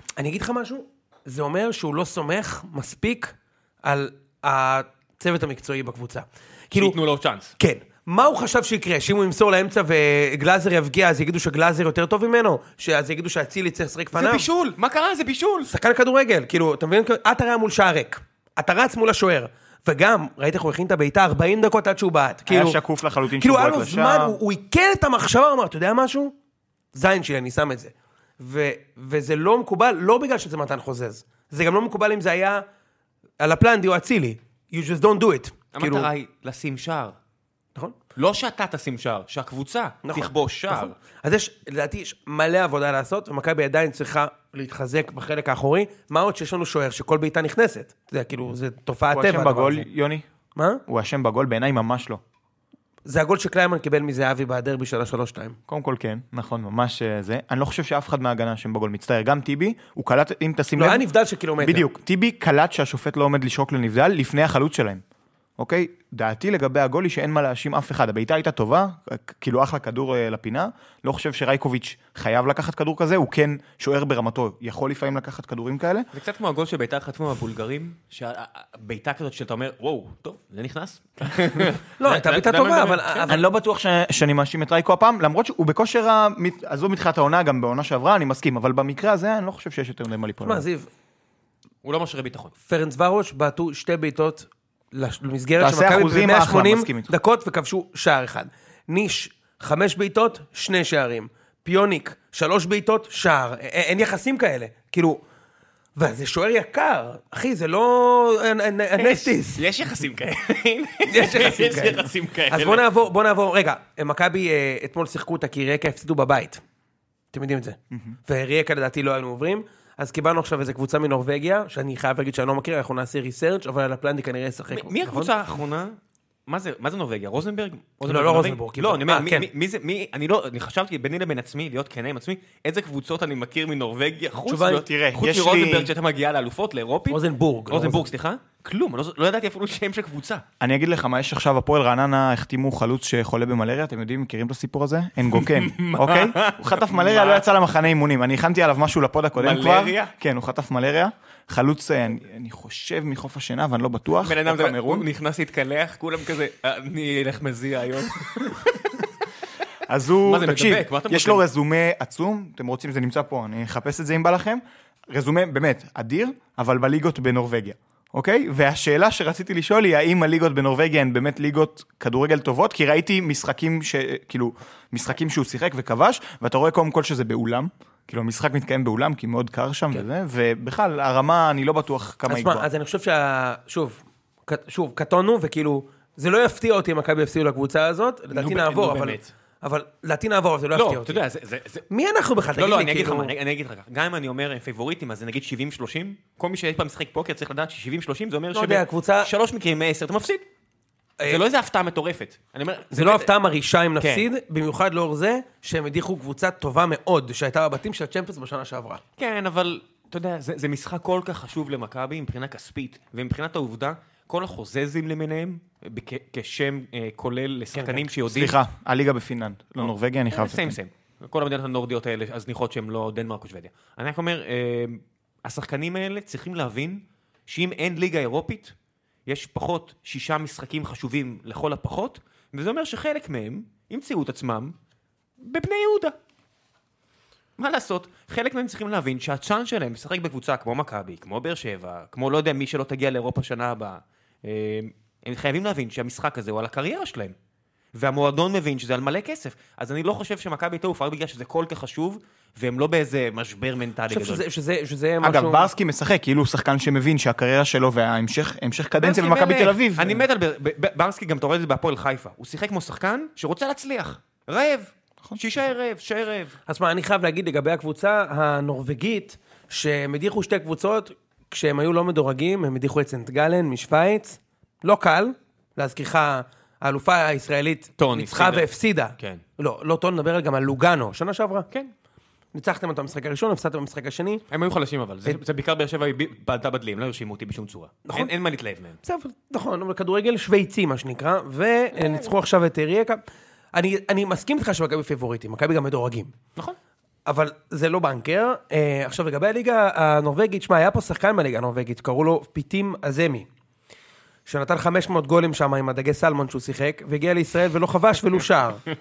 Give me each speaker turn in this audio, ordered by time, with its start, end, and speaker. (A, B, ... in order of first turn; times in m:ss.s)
0:00.2-0:07.0 A
0:06.8-0:07.5 B
0:07.6-0:14.5 A
0:14.1-0:15.7 B
0:15.7-0:22.8 A
0:22.5-0:24.4 C
0:23.4-0:26.3 A
0:26.9-0:32.6 A
0:33.4-0:36.1 A
0:35.7-0:37.2 B
0:38.2-0:40.9 B
0:40.0-0:49.9 A
0:49.1-0:50.3 C
0:50.6-0:50.8 A
0:50.9-0:52.2 C
0:53.1-0:55.6 A
0:55.7-1:01.1 C
1:00.8-1:01.9 A
1:01.6-1:05.0 C
1:05.6-1:16.1 C
1:16.1-1:23.4 B
1:22.0-1:23.4 A
1:23.3-1:30.6 C
1:30.4-1:30.9 A
1:31.8-1:32.5 B
1:32.7-1:45.2 A
1:35.6-1:37.1 C
1:46.0-1:49.6 A
1:49.0-1:52.9 B
1:51.1-1:56.6 A
1:57.3-2:05.3 A
2:04.7-2:20.4 B
2:08.0-2:09.5 A
2:14.5-2:14.8 A
2:14.8-2:15.9 C
2:17.1-2:18.0 A
2:20.6-2:35.1 C
2:25.3-2:27.5 B
2:29.4-2:30.1 B
2:34.2-2:39.1 B
2:39.9-3:02.7 C
2:40.2-2:41.4 B
3:02.3-3:11.2 A
3:08.3-3:09.3 B
3:10.8-3:11.9 B
3:11.9-3:13.3 A
3:12.5-3:20.4 B
3:18.5-3:19.3 A
3:21.3-3:23.3 B
3:22.9-3:29.0 A
3:24.0-3:24.3 B
3:29.2-3:38.6 B
3:37.8-3:38.1 A
3:38.3-3:40.8 C
3:39.8-3:48.7 B
3:49.3-3:54.7 B
3:55.4-3:56.2 B
3:57.6-4:07.4 B
4:08.0-4:14.4 B
4:14.1-4:15.7 A
4:15.2-4:20.2 C
4:19.0-4:26.6 B
4:26.7-4:41.7 A
4:38.0-4:39.4 B
4:42.5-4:44.4 A
4:44.5-4:49.0 B
4:48.1-4:48.3 A
4:49.0-4:53.2 A
4:53.7-4:56.4 A
4:57.3-5:03.5 A
5:04.5-5:08.8 A